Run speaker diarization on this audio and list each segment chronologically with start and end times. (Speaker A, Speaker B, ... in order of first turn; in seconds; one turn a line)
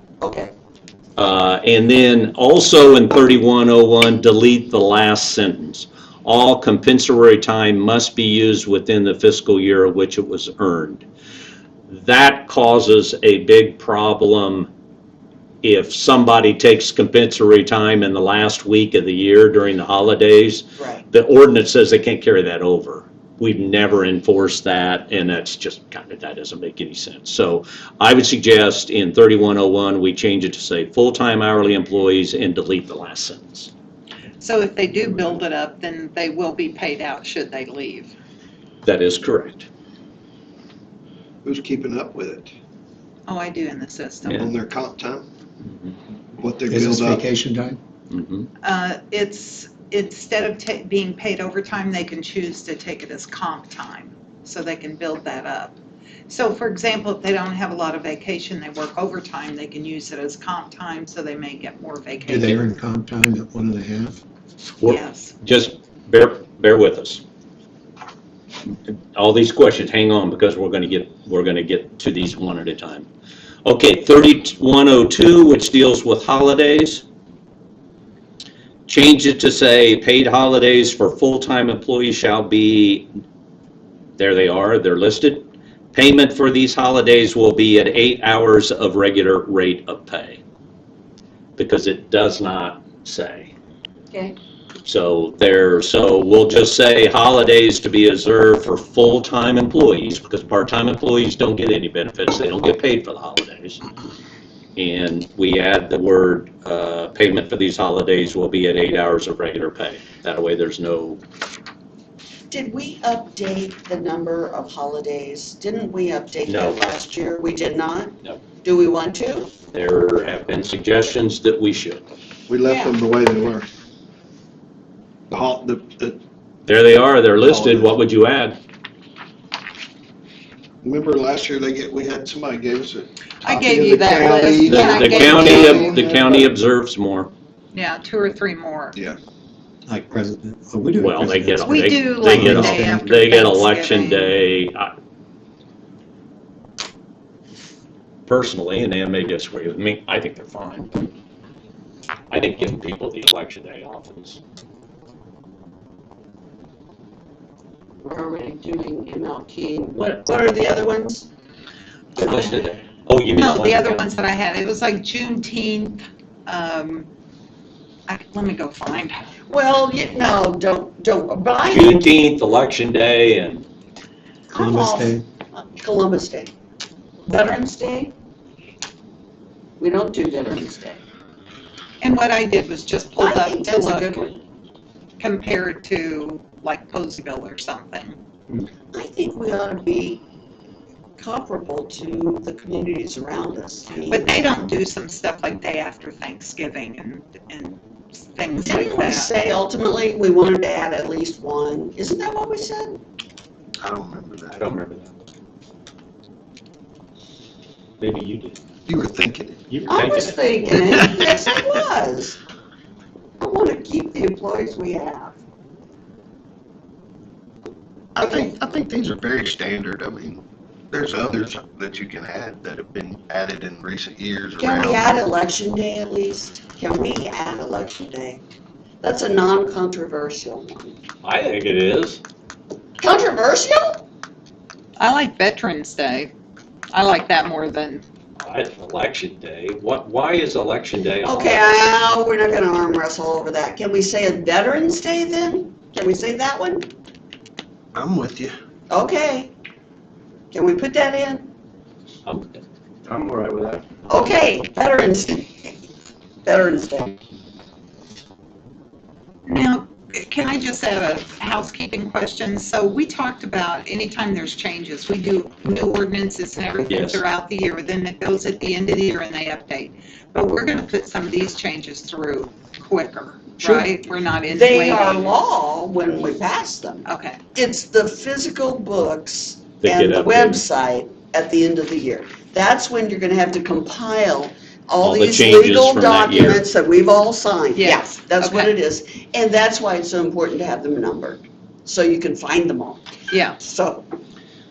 Speaker A: 0.2-0.5
Speaker B: 1.2-11.0
Speaker B: 11.9-14.7
Speaker B: 15.6-33.7
Speaker A: 20.8-21.0
Speaker C: 34.4-38.1
Speaker B: 38.8-39.7
Speaker D: 41.4-42.5
Speaker C: 43.3-44.4
Speaker D: 44.2-45.2
Speaker D: 46.4-47.2
Speaker E: 46.7-47.8
Speaker B: 48.1-48.5
Speaker C: 48.6-55.8
Speaker C: 56.3-62.6
Speaker E: 62.2-64.2
Speaker B: 64.8-67.2
Speaker C: 64.8-65.3
Speaker B: 69.1-73.0
Speaker B: 73.6-77.0
Speaker B: 78.9-83.1
Speaker B: 84.2-90.4
Speaker B: 91.6-93.5
Speaker B: 94.8-103.8
Speaker B: 104.8-111.2
Speaker A: 112.5-119.5
Speaker B: 116.5-116.8
Speaker B: 119.7-122.0
Speaker D: 122.5-123.7
Speaker A: 122.7-123.0
Speaker D: 125.3-126.2
Speaker B: 126.6-128.6
Speaker D: 127.4-127.9
Speaker D: 130.8-136.0
Speaker C: 133.4-135.9
Speaker B: 134.7-137.3
Speaker A: 134.7-136.5
Speaker C: 137.7-139.0
Speaker E: 139.9-143.2
Speaker B: 141.0-144.9
Speaker C: 141.6-144.4
Speaker B: 148.3-151.1
Speaker B: 152.3-154.4
Speaker A: 158.0-161.3
Speaker B: 162.2-164.1
Speaker C: 163.3-167.1
Speaker C: 168.1-169.2
Speaker A: 169.5-172.0
Speaker B: 171.7-173.7
Speaker A: 174.5-176.5
Speaker E: 174.6-175.2
Speaker A: 177.2-178.1
Speaker A: 179.8-181.0
Speaker C: 182.0-184.3
Speaker A: 183.2-184.4
Speaker C: 185.2-188.2
Speaker A: 188.9-190.2
Speaker A: 191.2-194.6
Speaker C: 194.1-199.3
Speaker A: 198.6-203.0
Speaker D: 203.8-204.7
Speaker B: 204.6-205.1
Speaker B: 208.0-208.6
Speaker D: 208.9-209.6
Speaker B: 209.7-210.5
Speaker A: 209.9-212.4
Speaker D: 210.8-211.3
Speaker A: 213.4-215.4
Speaker A: 218.2-218.5
Speaker D: 218.2-225.1
Speaker A: 224.6-228.4
Speaker A: 229.0-231.0
Speaker B: 231.2-232.2
Speaker A: 233.0-234.0
Speaker C: 235.0-236.3
Speaker C: 236.9-238.1
Speaker B: 238.4-241.7
Speaker A: 241.2-246.9
Speaker D: 247.9-248.5
Speaker A: 248.9-249.5
Speaker A: 250.5-251.5
Speaker B: 252.2-252.6
Speaker D: 253.1-253.8
Speaker A: 254.1-255.8
Speaker A: 256.4-257.2
Speaker C: 259.5-275.4
Speaker B: 266.9-267.2
Speaker A: 274.5-293.0
Speaker C: 277.1-277.4
Speaker B: 279.8-280.6
Speaker B: 285.0-286.6
Speaker C: 287.8-288.7
Speaker C: 293.3-293.6
Speaker A: 293.6-294.1